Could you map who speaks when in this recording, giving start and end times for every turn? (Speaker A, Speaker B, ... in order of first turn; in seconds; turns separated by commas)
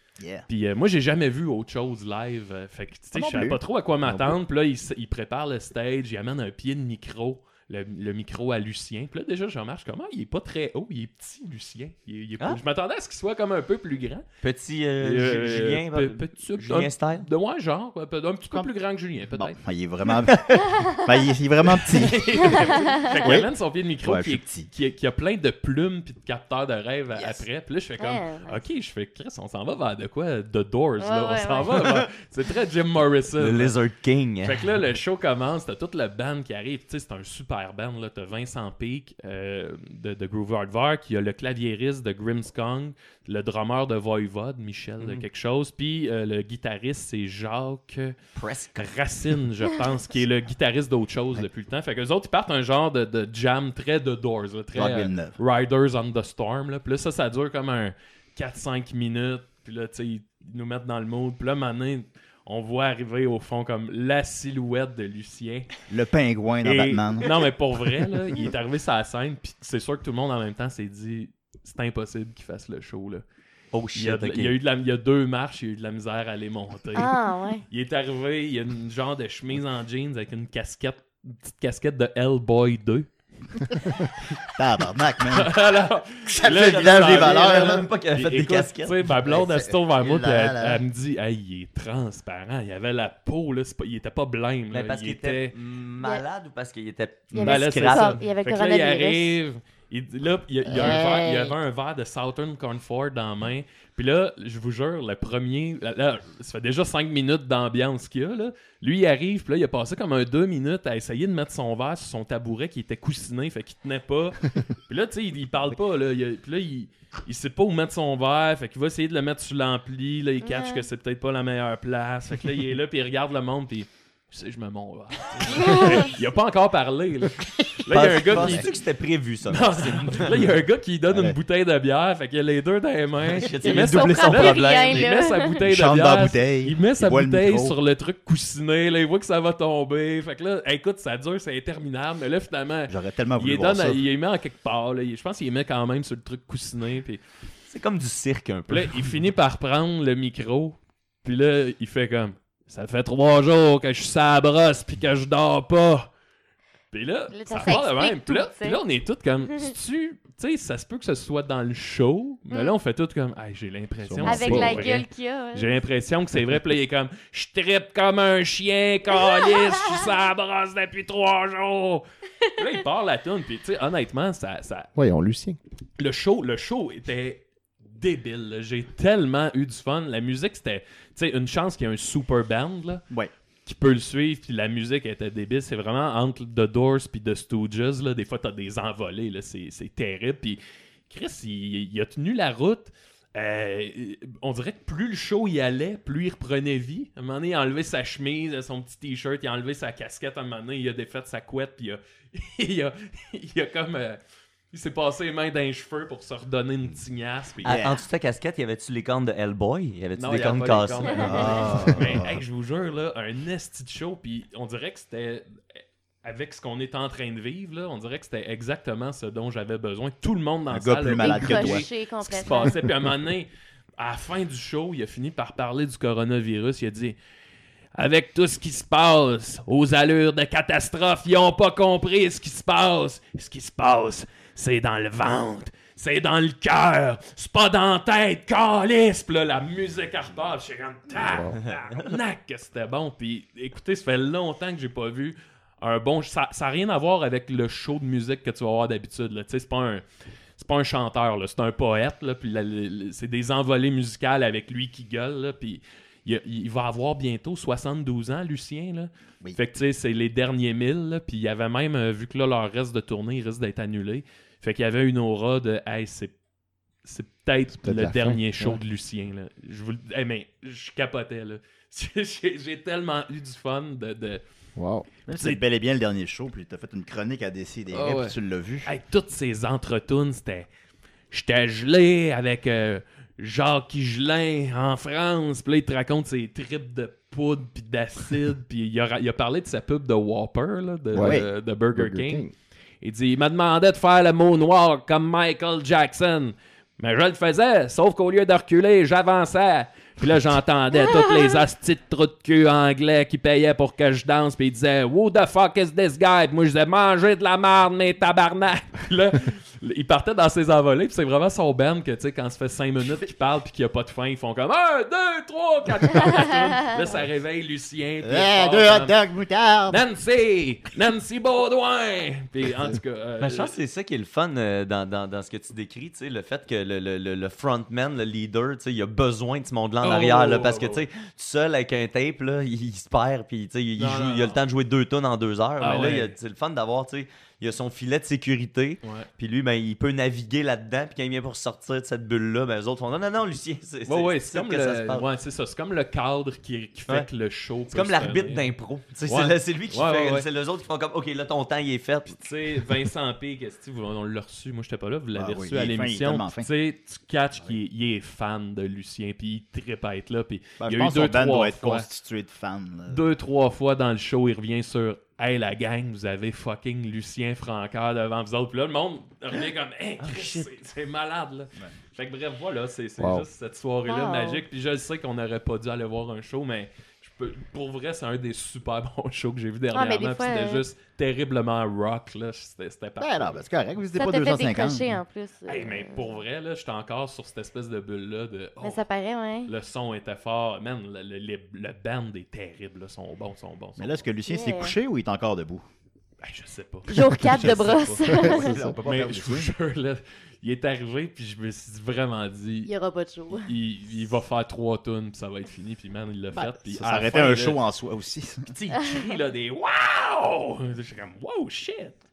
Speaker A: 0.2-0.5, Speaker B: 0.5-14.2, Speaker A: 3.1-3.6, Speaker C: 4.0-4.4, Speaker D: 14.4-17.3, Speaker B: 15.0-19.6, Speaker A: 19.2-23.5, Speaker B: 21.6-33.8, Speaker E: 22.4-23.1, Speaker A: 24.0-24.7, Speaker A: 27.1-27.4, Speaker E: 28.0-28.6, Speaker E: 31.0-31.9, Speaker D: 33.4-34.6, Speaker B: 34.4-48.1, Speaker D: 48.4-48.9, Speaker B: 48.8-65.7, Speaker A: 54.7-55.4, Speaker A: 65.9-67.4, Speaker B: 66.6-73.2, Speaker D: 73.7-74.5, Speaker B: 73.9-77.1, Speaker E: 76.9-77.6, Speaker B: 77.7-83.8, Speaker A: 84.5-87.9, Speaker B: 85.2-95.5, Speaker D: 86.4-89.1, Speaker A: 89.2-90.8, Speaker D: 94.7-98.2, Speaker E: 97.3-99.4, Speaker B: 97.4-128.8, Speaker A: 100.7-101.2, Speaker E: 100.7-101.5, Speaker E: 120.4-120.8, Speaker E: 125.5-126.1, Speaker A: 127.9-128.7, Speaker D: 127.9-130.5, Speaker B: 129.4-147.2, Speaker A: 130.2-130.5, Speaker A: 131.1-131.4, Speaker D: 133.3-135.0, Speaker E: 133.6-135.6, Speaker A: 135.6-137.8, Speaker A: 142.9-144.0, Speaker D: 147.7-149.1, Speaker B: 148.7-156.1, Speaker B: 156.9-172.0, Speaker E: 157.3-158.8, Speaker E: 162.5-162.7, Speaker C: 164.0-165.0, Speaker E: 164.2-165.8, Speaker E: 169.2-169.9, Speaker B: 172.6-174.9, Speaker C: 174.9-175.6, Speaker B: 176.0-183.0, Speaker B: 183.6-204.2, Speaker B: 204.7-207.8, Speaker D: 207.6-211.8, Speaker A: 207.6-208.0, Speaker B: 210.2-215.6, Speaker A: 211.2-212.4, Speaker B: 216.2-227.2, Speaker A: 220.7-221.8, Speaker E: 221.2-222.8, Speaker B: 227.9-250.0, Speaker C: 241.1-241.6, Speaker D: 241.6-242.1, Speaker B: 250.6-266.3, Speaker B: 267.0-274.4, Speaker C: 267.8-268.8, Speaker C: 274.8-275.1, Speaker A: 275.3-278.9, Speaker B: 275.3-275.6, Speaker B: 277.9-280.7, Speaker B: 281.3-292.5, Speaker C: 291.1-292.5, Speaker A: 291.1-291.5, Speaker B: 293.0-319.1, Speaker A: 318.2-320.0, Speaker B: 319.9-323.7, Speaker D: 323.4-345.2, Speaker B: 330.0-331.0, Speaker B: 334.0-334.6, Speaker B: 335.8-336.3, Speaker B: 339.0-339.3, Speaker B: 344.1-348.7, Speaker D: 347.9-352.4, Speaker B: 349.2-350.4, Speaker B: 352.3-362.1, Speaker A: 355.3-356.7, Speaker A: 360.8-363.3, Speaker B: 363.1-383.6, Speaker D: 370.2-370.7, Speaker C: 373.2-373.4, Speaker E: 374.1-374.6, Speaker E: 379.9-380.8, Speaker A: 383.2-385.2, Speaker E: 384.1-386.4, Speaker B: 385.7-389.0, Speaker E: 388.8-389.7, Speaker B: 389.6-394.2, Speaker A: 394.0-395.8, Speaker E: 394.5-394.9, Speaker B: 396.4-402.9, Speaker E: 397.1-398.8, Speaker A: 397.6-399.7, Speaker E: 402.8-403.7, Speaker B: 403.5-407.8, Speaker A: 406.5-408.7, Speaker B: 408.7-412.2